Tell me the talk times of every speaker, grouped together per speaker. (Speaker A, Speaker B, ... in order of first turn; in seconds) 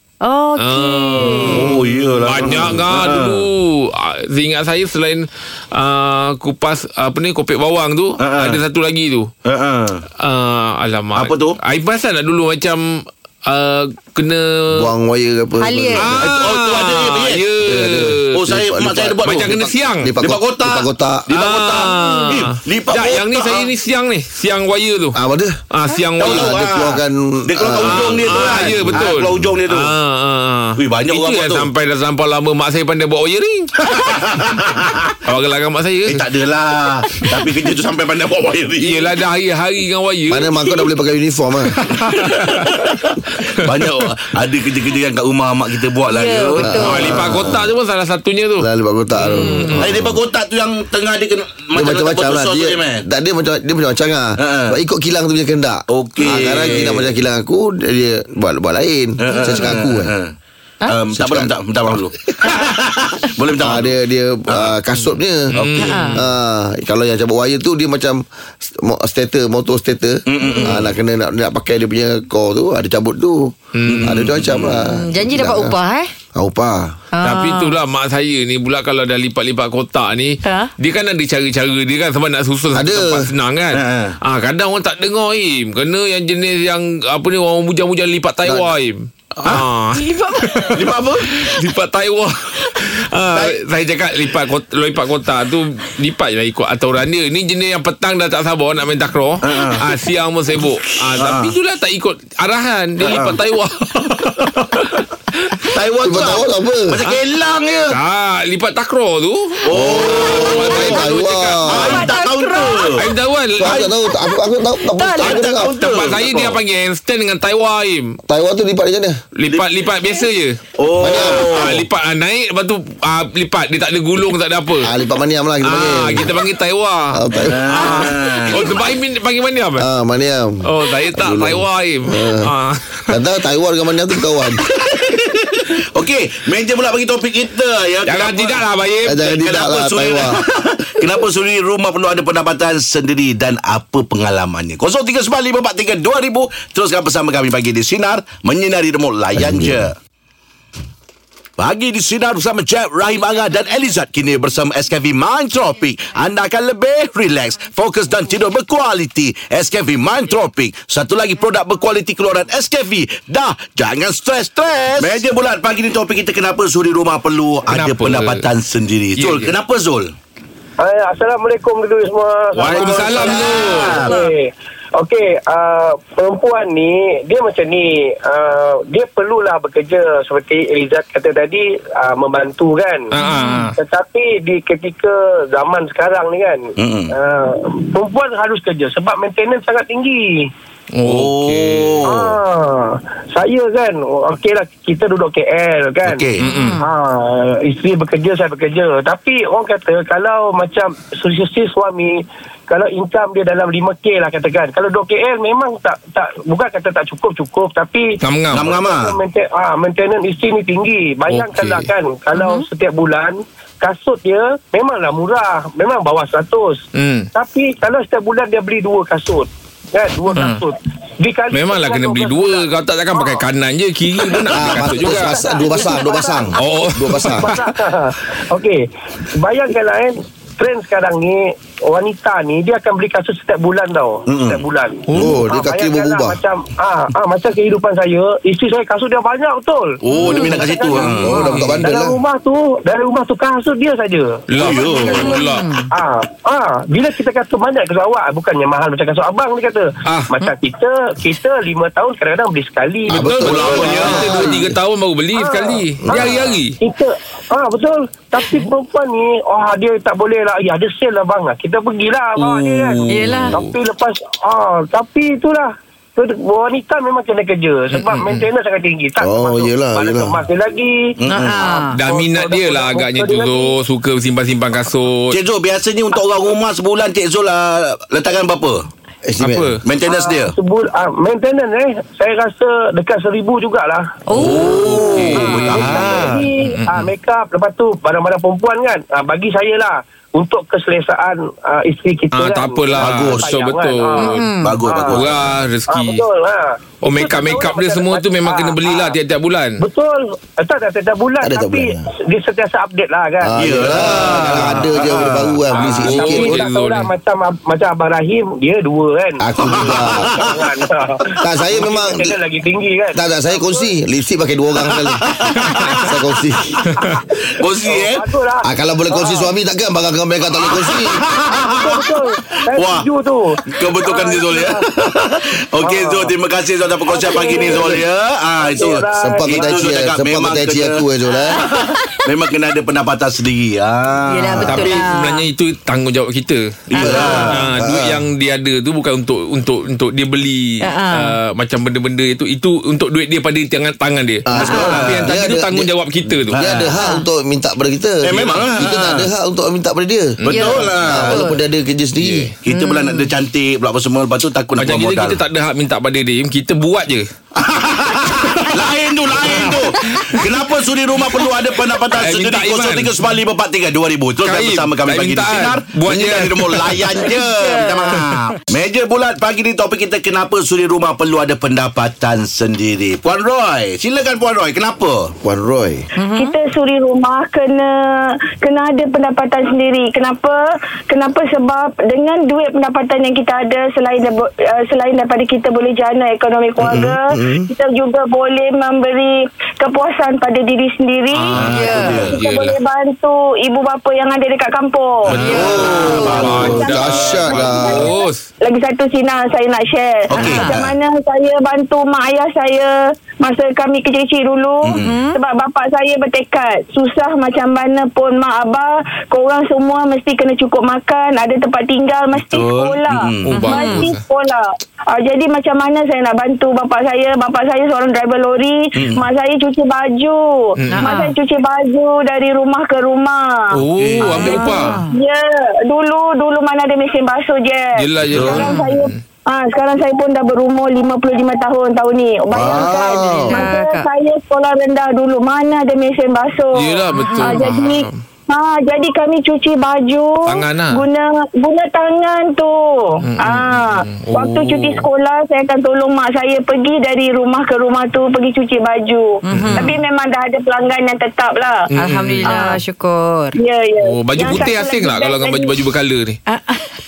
Speaker A: 0.2-1.6, 15.6-16.1, 46.1-47.2, 49.5-49.7, 65.8-66.2, 70.4-70.7, 74.8-76.1, 77.1-77.8, 80.4-80.7, 111.9-112.9, 114.1-115.4, 183.2-183.7, 196.5-196.7, 212.3-212.7, 240.1-240.5, 245.5-245.8, 263.1-263.6, 271.3-272.0, 284.3-284.9, 294.2-294.8, 331.3-332.2, 334.3-335.5, 337.0-337.6, 340.8-341.4, 344.6-345.0, 347.0-347.2, 350.5-351.6, 352.7-353.3, 367.6-368.2, 376.2-376.6, 391.6-392.2, 395.4-396.5, 400.4-400.6, 405.0-405.4, 413.5-414.0, 420.9-421.3, 424.3-425.1, 433.4-434.1, 437.1-437.6, 449.4-450.0, 451.9-453.6, 456.5-456.9
Speaker B: 0.6-9.3, 10.2-14.9, 16.0-18.3, 19.2-20.1, 21.3-25.2, 25.7-26.4, 27.8-33.9, 35.2-36.3, 37.2-37.5, 38.8-40.6, 41.9-42.7, 46.8-48.7, 49.2-49.9, 65.5-66.2, 73.7-74.2, 77.2-105.0, 107.9-112.1, 112.9-113.8, 115.8-118.2, 119.3-120.6, 121.1-124.9, 125.6-129.8, 130.7-133.1, 138.0-139.2, 167.7-168.5, 169.2-169.5, 172.6-174.2, 183.1-183.8, 190.9-192.0, 196.4-196.8, 208.2-208.7, 211.3-211.9, 216.9-217.3, 220.3-220.6, 221.5-225.5, 226.6-227.6, 235.1-235.4, 241.4-241.8, 244.5-245.8, 250.1-250.5, 253.1-256.7, 262.4-263.7, 267.9-268.4, 271.5-275.4, 279.4-279.8, 284.7-287.1, 292.3-294.5, 295.1-296.2, 297.0-299.8, 304.3-304.9, 305.8-307.1, 334.6-346.6, 350.4-350.8, 352.2-352.5, 354.8-357.3, 358.3-358.9, 359.4-360.3, 362.1-363.2, 364.4-367.2, 391.3-392.8, 395.3-398.4, 413.4-414.2, 420.8-421.1, 423.7-425.0, 427.9-429.2, 436.7-438.2, 440.4-441.1, 443.2-445.1, 449.5-449.9, 451.9-452.6, 454.0-456.4
Speaker C: 1.5-3.5, 8.2-8.6, 9.4-10.0, 11.1-11.6, 16.2-17.5, 18.3-23.7, 26.2-29.9, 30.8-31.7, 33.8-35.2, 36.0-39.1, 42.1-47.6, 49.8-53.0, 54.4-54.8, 55.9-57.2, 59.2-60.3, 60.9-63.9, 64.5-64.8, 65.5-66.0, 70.2-70.9, 73.8-74.8, 83.7-84.2, 90.7-91.3, 93.3-93.6, 99.4-99.9, 101.1-101.5, 103.0-103.4, 104.0-104.9, 105.7-108.0, 109.6-111.1, 111.7-113.1, 113.6-113.9, 115.2-116.6, 119.4-119.8, 120.8-121.9, 127.3-128.7, 134.7-149.9, 151.6-170.1, 172.7-174.1, 186.8-187.1, 191.0-192.4, 196.0-196.4, 208.5-209.2, 234.3-234.7, 240.0-241.3, 244.6-245.1, 253.5-254.1, 271.2-271.5, 275.3-278.9, 279.8-280.6, 284.4-286.4, 293.0-293.5, 294.6-295.3, 303.6-305.6, 309.7-310.7, 314.8-316.7, 317.5-318.3, 320.6-323.1, 323.7-334.9, 336.9-337.7, 344.5-345.3, 346.3-346.9, 348.2-349.3, 350.4-351.5, 352.6-355.4, 357.6-375.3, 391.5-392.4, 395.3-397.8, 400.3-400.9, 404.8-405.2, 412.3-413.6, 418.9-419.3, 423.9-424.6, 428.3-428.7
Speaker D: 14.7-16.2, 17.6-21.3, 25.1-25.5, 26.2-29.4, 40.3-41.8, 46.6-47.7, 48.6-50.2, 51.7-60.1, 61.1-61.5, 63.6-73.5, 74.0-75.8, 76.3-76.9, 82.7-83.3, 88.4-88.7, 106.0-107.0, 109.8-112.0, 113.6-115.8, 118.3-119.2, 121.0-121.5, 124.8-126.4, 127.1-128.1, 129.8-132.5, 133.1-134.6, 139.1-140.4, 149.4-149.9, 224.5-227.5, 235.1-236.4, 241.1-242.2, 253.1-254.8, 269.2-270.4, 279.2-279.7, 301.4-302.0, 303.4-306.7, 309.4-310.4, 311.4-312.4, 313.1-316.8, 318.6-321.2, 329.2-331.7, 334.5-334.9, 337.0-338.2, 344.4-345.9, 346.5-352.5, 375.4-376.0, 386.8-387.7, 395.3-398.1, 432.5-433.7
Speaker E: 90.0-90.4, 376.3-391.5, 392.2-423.8, 424.5-451.8, 452.4-452.8, 453.6-455.7
Speaker F: 170.8-183.1, 183.8-190.5, 192.1-196.2, 196.8-216.8, 217.3-223.4, 224.2-254.6, 255.3-273.8, 280.1-284.0, 284.7-299.2, 299.8-303.5, 305.7-309.4, 310.0-313.9, 317.8-319.5, 321.7-324.8, 325.8-326.3, 327.1-328.0, 328.6-329.9